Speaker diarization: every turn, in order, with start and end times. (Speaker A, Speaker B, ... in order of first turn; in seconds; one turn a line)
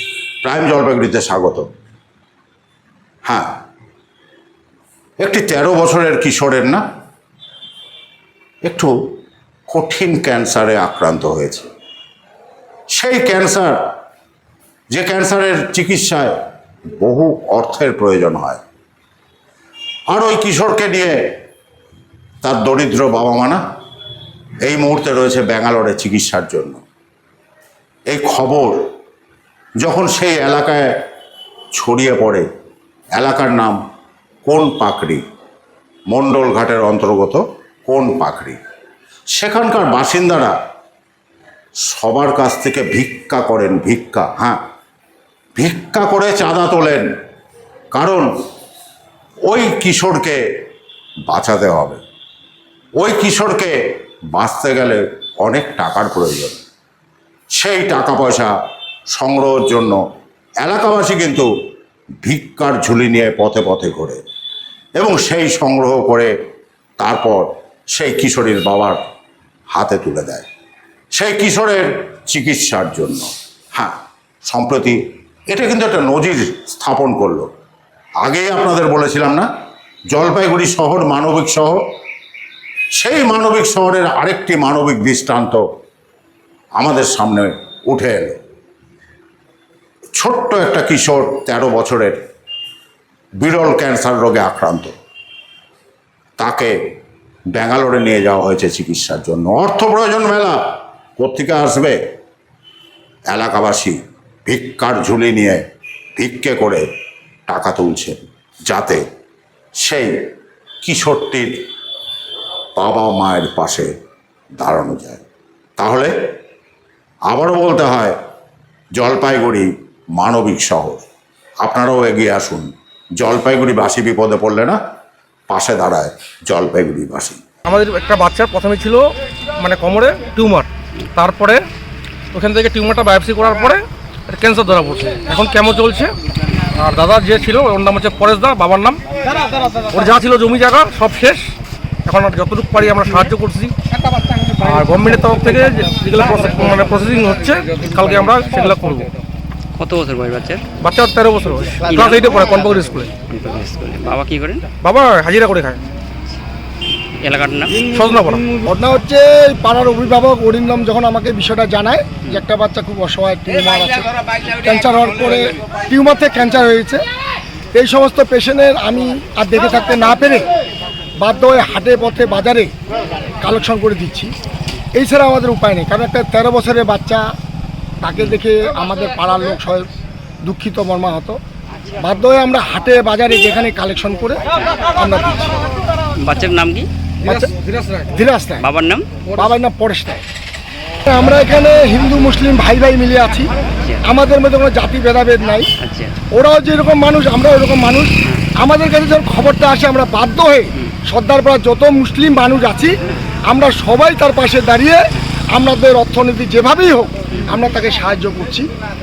Speaker A: 0.4-1.7
Speaker A: 5.2-6.8
Speaker A: 8.7-8.9
Speaker A: 9.7-11.7
Speaker A: 12.9-13.8
Speaker A: 14.9-16.4
Speaker A: 17.0-18.6
Speaker A: 20.1-21.2
Speaker A: 22.4-23.6
Speaker A: 24.6-26.8
Speaker A: 28.1-28.8
Speaker A: 29.8-30.9
Speaker A: 31.8-32.5
Speaker A: 33.2-33.8
Speaker A: 34.5-35.2
Speaker A: 36.1-38.6
Speaker A: 39.4-40.6
Speaker A: 41.9-44.6
Speaker A: 45.5-47.1
Speaker A: 47.9-48.3
Speaker A: 49.5-50.4
Speaker A: 51.3-52.0
Speaker A: 53.0-53.7
Speaker A: 54.4-56.6
Speaker A: 57.5-58.5
Speaker A: 59.1-60.0
Speaker A: 60.6-61.5
Speaker A: 62.2-64.2
Speaker A: 65.0-66.3
Speaker A: 67.0-69.0
Speaker A: 69.7-70.5
Speaker A: 71.1-77.5
Speaker A: 78.2-79.5
Speaker A: 80.1-81.8
Speaker A: 83.0-85.7
Speaker A: 86.8-88.4
Speaker A: 90.2-92.2
Speaker A: 93.4-94.9
Speaker A: 96.4-96.8
Speaker A: 97.5-100.6
Speaker A: 101.2-102.0
Speaker A: 103.3-105.6
Speaker A: 106.2-106.8
Speaker A: 107.5-109.0
Speaker A: 109.8-110.2
Speaker A: 110.8-111.6
Speaker A: 112.8-113.9
Speaker A: 114.6-115.2
Speaker A: 115.8-116.1
Speaker A: 117.3-118.2
Speaker A: 119.0-121.0
Speaker A: 121.6-124.8
Speaker A: 125.5-127.4
Speaker B: 127.7-129.1
Speaker B: 129.6-131.7
Speaker B: 132.3-136.2
Speaker B: 136.8-139.0
Speaker B: 139.9-141.5
Speaker B: 142.1-143.8
Speaker B: 144.6-149.1
Speaker C: 149.8-150.6
Speaker B: 150.8-153.1
Speaker C: 151.9-152.6
Speaker C: 153.3-154.7
Speaker B: 154.8-155.8
Speaker C: 157.2-157.9
Speaker B: 157.8-158.5
Speaker D: 158.6-167.0
Speaker D: 167.8-170.5
Speaker D: 171.2-172.7
Speaker D: 173.4-174.3
Speaker D: 174.9-177.2
Speaker D: 178.0-179.9
Speaker D: 180.4-181.4
Speaker D: 182.0-184.4
Speaker D: 184.9-185.6
Speaker C: 186.2-186.9
Speaker D: 187.2-187.5
Speaker D: 188.1-188.7
Speaker C: 188.6-189.2
Speaker D: 189.3-190.2
Speaker D: 191.1-193.5
Speaker D: 194.0-195.7
Speaker C: 195.8-196.2
Speaker D: 196.3-202.9
Speaker D: 203.5-205.0
Speaker D: 205.6-208.7